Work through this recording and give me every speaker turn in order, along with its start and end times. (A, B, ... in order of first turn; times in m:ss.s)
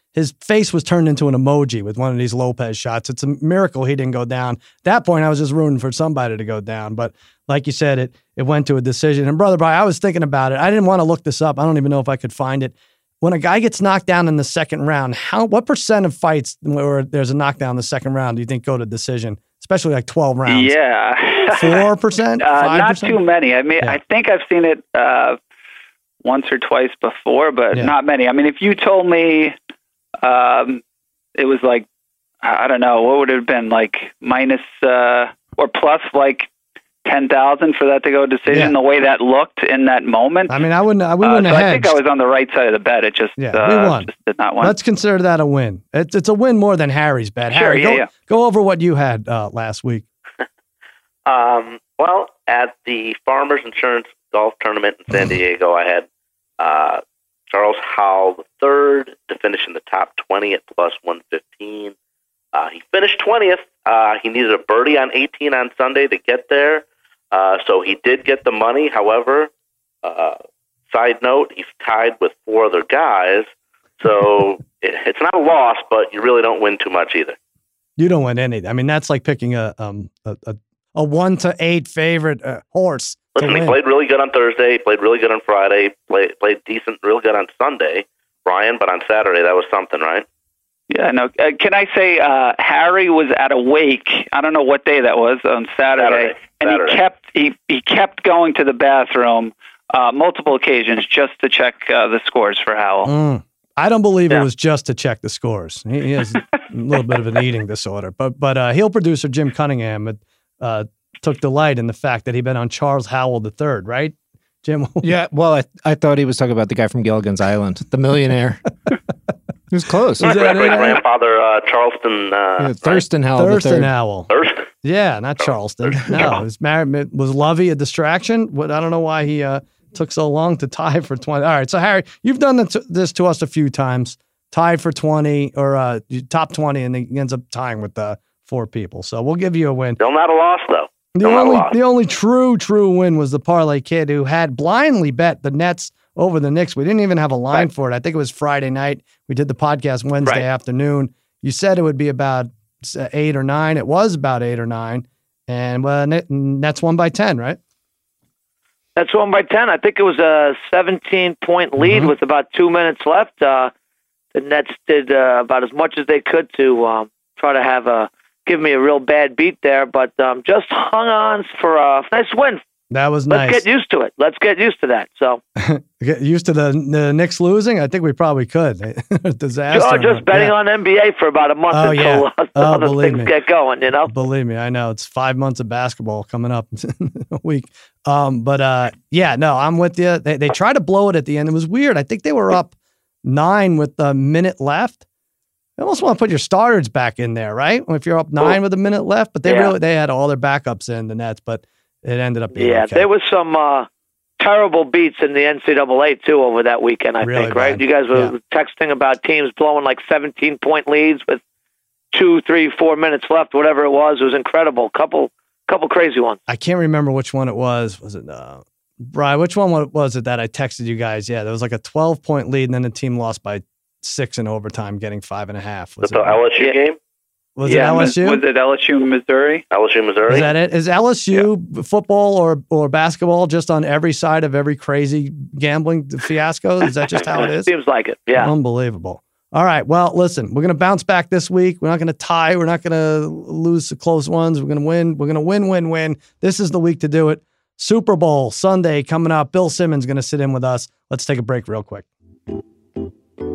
0:00.1-0:20.8 A
0:20.5-0:21.9 B
0:21.5-0:23.2 A
0:22.4-0:25.4 B
0:26.2-0:29.5 B
0:30.2-0:30.8 B
0:31.4-0:31.8 B
0:32.4-0:36.5 B
0:37.0-0:40.6 B
0:38.5-0:38.7 A
0:40.5-0:42.0 A
0:41.2-0:44.8 B
0:43.4-0:50.0 A
0:47.5-0:48.1 B
0:51.2-0:56.0 C
0:56.6-1:01.9 C
1:02.5-1:09.5 C
1:10.0-1:10.4 C
1:10.9-1:13.5 C
1:14.0-1:17.4 C
1:18.0-1:23.8 A
1:23.4-1:30.2 C
1:30.9-1:43.1 B
1:36.0-1:37.0 C
1:43.0-1:55.1 A
1:55.0-1:58.6 D
1:59.7-2:00.6 D
2:00.2-2:03.0 C
2:00.2-2:01.0 A
2:02.6-2:03.9 D
2:03.3-2:04.3 A
2:04.3-2:04.6 C
2:04.8-2:20.0 A
2:05.8-2:06.4 C
2:20.0-2:21.8 C
2:21.1-2:37.6 A
2:39.0-2:43.7 E
2:41.8-2:42.1 A
2:44.3-2:52.6 E
2:52.9-2:53.6 A
2:53.3-2:55.4 E
2:55.6-3:00.5 A
2:59.7-3:04.1 E
3:01.7-3:03.3 A
3:04.1-3:15.0 A
3:15.8-3:23.1 A
3:19.4-3:19.7 E
3:22.6-3:23.9 E
3:24.4-3:31.4 E
3:27.2-3:28.3 A
3:32.1-3:36.4 E
3:36.5-3:46.4 A
3:46.0-3:47.0 C
3:47.6-3:48.4 A
3:47.6-3:49.6 B
3:49.7-3:50.5 C
3:50.3-3:57.7 A
3:57.6-3:58.5 E
3:58.4-4:12.1 A